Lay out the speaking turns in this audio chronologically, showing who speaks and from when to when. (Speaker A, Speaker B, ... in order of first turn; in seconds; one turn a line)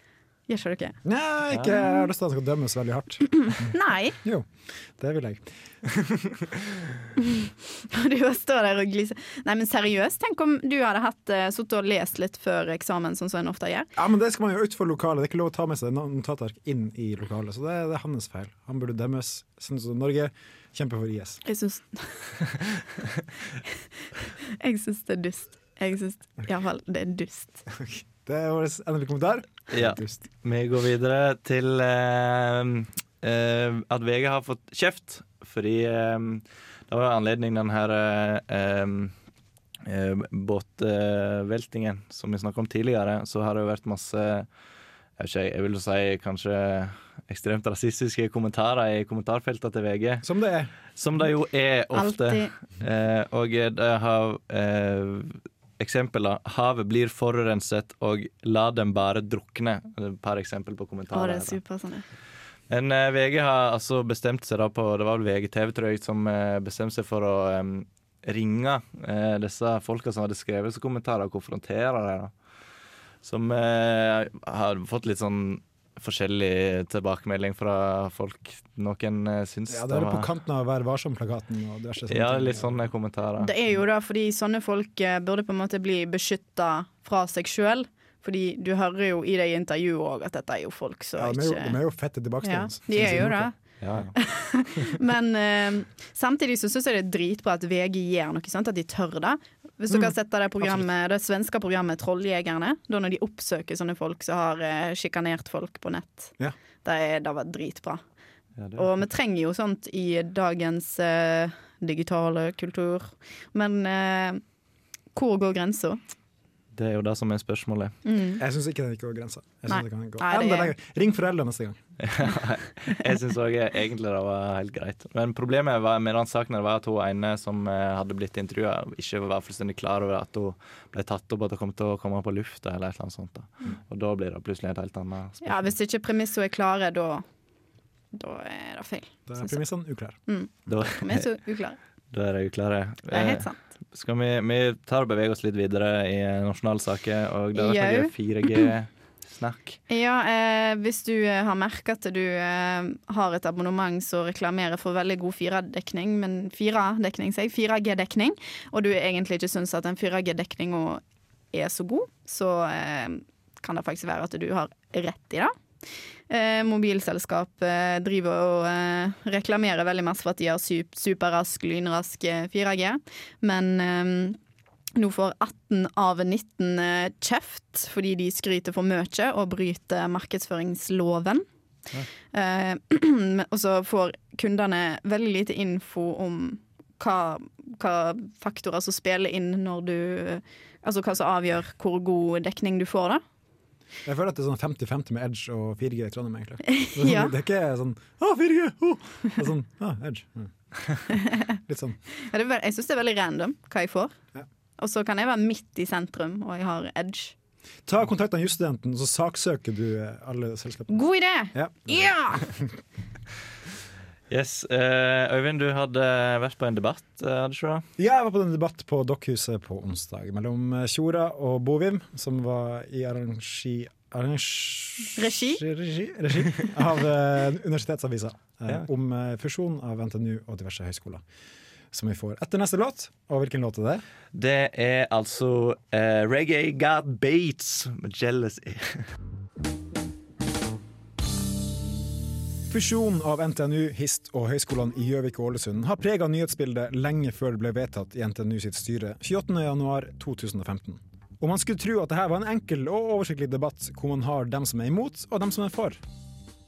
Speaker A: 0.5-1.0
Speaker B: 1.1-6.2
Speaker A: 1.7-2.0
Speaker A: 3.7-4.2
Speaker A: 7.9-13.9
Speaker B: 14.0-21.4
Speaker A: 21.5-22.3
Speaker A: 24.6-27.6
Speaker B: 27.7-30.2
Speaker C: 29.7-39.1
Speaker C: 39.9-44.5
Speaker C: 45.2-50.2
Speaker B: 50.2-50.7
Speaker C: 51.0-61.6
Speaker A: 51.9-52.5
Speaker A: 61.1-62.0
Speaker C: 62.7-72.3
Speaker C: 73.2-80.3
Speaker B: 79.7-82.8
Speaker C: 82.1-83.5
Speaker A: 83.4-91.8
Speaker B: 91.2-93.5
Speaker A: 92.4-108.0
Speaker C: 93.8-94.2
Speaker C: 108.6-108.8
Speaker A: 108.8-114.4
Speaker A: 115.1-116.0
Speaker C: 116.7-118.0
Speaker A: 118.0-118.4
Speaker B: 118.4-121.8
Speaker A: 119.7-120.7
Speaker C: 122.0-135.7
Speaker A: 135.4-137.2
Speaker A: 138.1-139.6
Speaker B: 139.3-140.2
Speaker A: 140.3-141.8
Speaker C: 140.7-141.3
Speaker C: 142.1-149.8
Speaker A: 143.1-143.6
Speaker A: 147.6-148.7
Speaker A: 149.9-161.0
Speaker A: 161.5-165.5
Speaker A: 166.3-174.4
Speaker A: 175.0-181.4
Speaker A: 182.3-193.2
Speaker B: 194.1-200.5
Speaker A: 196.7-197.3
Speaker A: 201.2-201.4
Speaker B: 201.7-202.0
Speaker A: 202.3-204.1
Speaker A: 204.8-207.3
Speaker B: 207.9-211.0
Speaker A: 210.9-212.4
Speaker B: 211.5-212.7
Speaker C: 214.3-217.9
Speaker B: 218.0-231.2
Speaker A: 225.2-225.6
Speaker B: 231.9-234.0
Speaker C: 234.3-239.1
Speaker B: 242.7-256.0